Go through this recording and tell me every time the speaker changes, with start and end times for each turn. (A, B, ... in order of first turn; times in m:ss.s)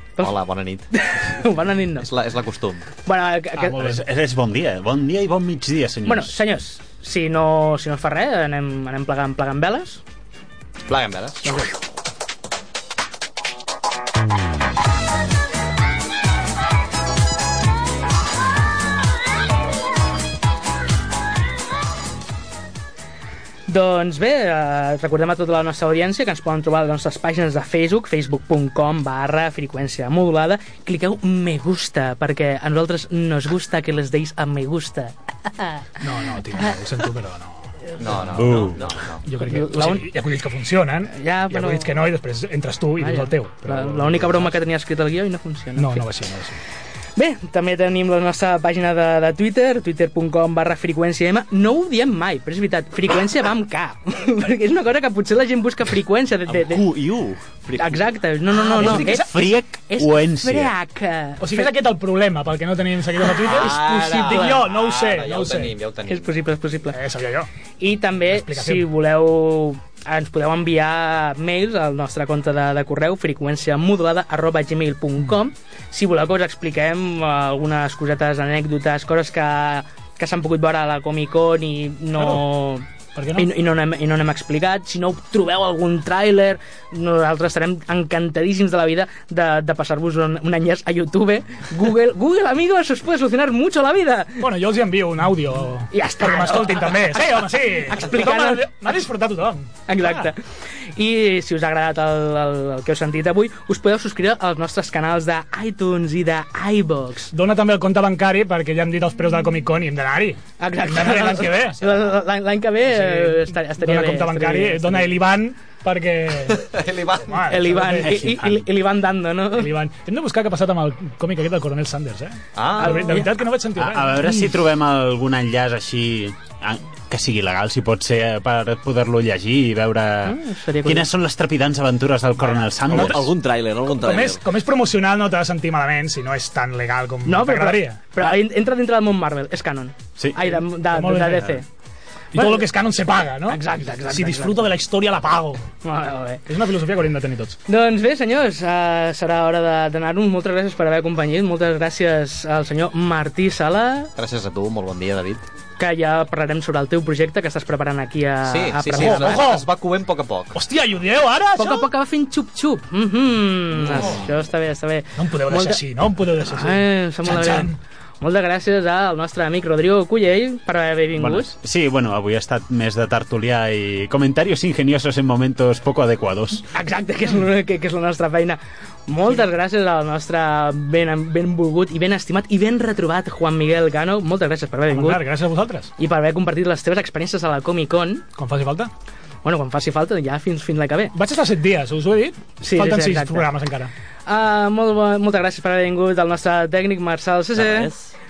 0:00.2-0:00.9 A
0:00.9-0:02.1 B
0:02.0-0:02.9 A
0:03.1-0:04.0 B
0:03.6-0:04.0 C
0:03.7-0:06.4 D
0:06.1-0:10.0 B
0:10.9-0:11.5 A
0:23.7-0:36.8 B
0:36.0-0:38.7 C
0:38.0-0:39.2 A
0:38.3-0:38.9 D
0:39.2-0:44.6 C
0:39.4-0:40.1 B
0:41.1-0:42.0 B
0:43.0-0:46.1 B
0:45.8-0:46.6 C
0:47.2-0:56.9 B
0:56.5-0:58.1 E
0:57.8-1:01.7 B
0:58.6-0:59.3 C
0:58.8-1:00.7 D
1:01.4-1:05.7 C
1:03.4-1:06.3 A
1:03.5-1:04.6 B
1:06.1-1:07.0 B
1:06.9-1:07.5 C
1:07.8-1:34.4 B
1:08.3-1:08.9 C
1:22.2-1:22.4 C
1:23.2-1:23.5 C
1:34.4-1:40.3 C
1:35.9-1:37.2 B
1:37.9-1:38.7 B
1:39.9-1:40.4 B
1:41.0-1:47.3 B
1:47.3-1:51.8 C
1:50.6-1:55.1 B
1:52.9-1:56.7 C
1:56.5-1:57.7 A
1:57.3-1:58.7 C
1:57.5-1:59.7 B
1:59.5-2:04.4 C
2:02.6-2:03.3 A
2:02.8-2:03.3 B
2:03.8-2:13.3 D
2:10.2-2:11.1 B
2:12.5-2:13.3 C
2:12.9-2:14.4 E
2:13.9-2:18.4 C
2:17.2-2:21.6 B
2:20.2-2:20.5 D
2:20.6-2:21.6 C
2:22.3-2:25.7 C
2:22.4-2:22.7 B
2:23.5-2:24.7 B
2:25.8-2:26.4 B
2:26.5-2:27.6 C
2:27.7-2:34.1 B
2:34.2-2:35.4 A
2:35.8-2:39.5 B
2:38.4-2:40.6 A
2:38.9-2:39.7 C
2:40.5-2:41.9 C
2:41.6-2:45.8 B
2:43.9-2:44.2 C
2:45.2-2:47.8 C
2:46.4-2:51.5 B
2:51.2-2:56.7 D
2:56.7-3:05.2 B
3:04.9-3:05.9 C
3:06.0-3:08.3 B
3:08.4-3:08.9 C
3:09.4-3:11.2 B
3:11.1-3:13.9 C
3:12.6-3:13.5 B
3:14.3-3:18.0 B
3:17.6-3:18.1 E